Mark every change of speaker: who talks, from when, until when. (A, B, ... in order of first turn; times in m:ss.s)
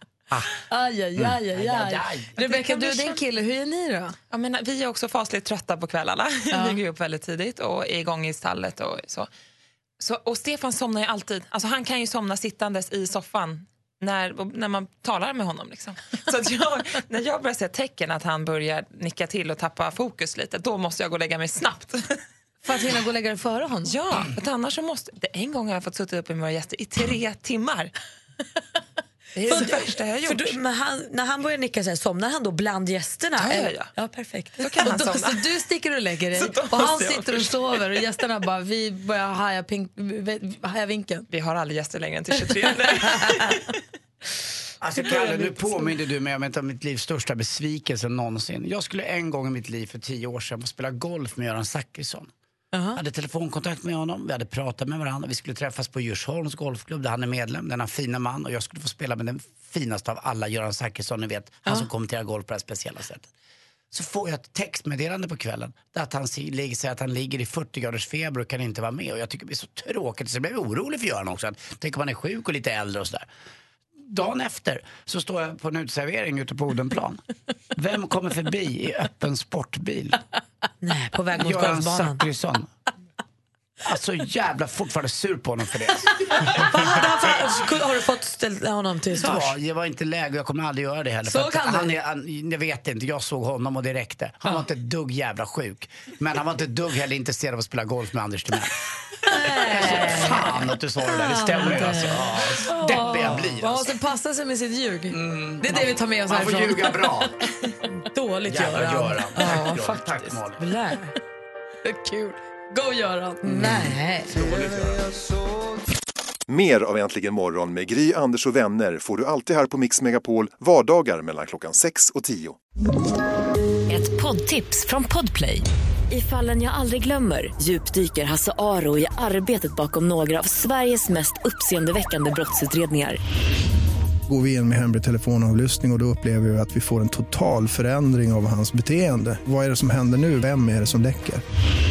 0:00.7-0:04.1 A
0:01.5-0:02.3 B
0:02.4-0:03.0 C
0:04.3-0:09.3 D
0:06.5-0:06.8 A
0:10.0-0:22.2 D
0:22.6-0:23.9 A
0:23.8-0:27.9 D
0:29.3-0:30.5 D
0:29.5-0:34.6 C
0:33.4-0:33.9 D
0:34.6-0:35.4 D
0:34.8-0:41.3 A
0:36.3-0:37.5 D
0:41.3-0:43.6 D
0:44.8-0:52.3 B
0:45.1-0:45.4 A
0:52.9-1:03.3 B
1:03.9-1:13.3 B
1:14.0-1:17.2 B
1:17.7-1:20.2 B
1:20.8-1:22.2 C
1:21.3-1:22.7 B
1:23.8-1:27.2 B
1:26.6-1:29.5 C
1:29.1-1:38.7 B
1:31.3-1:31.9 A
1:39.3-1:42.2 C
1:39.6-1:43.8 B
1:42.6-1:47.2 A
1:42.9-1:43.2 C
1:45.1-1:47.3 B
1:48.1-1:51.1 C
1:48.5-1:50.6 B
1:51.8-1:54.3 A
1:53.4-1:54.2 C
1:56.5-2:02.6 E
2:04.1-2:05.6 F
2:10.7-2:13.1 F
2:14.3-2:21.4 G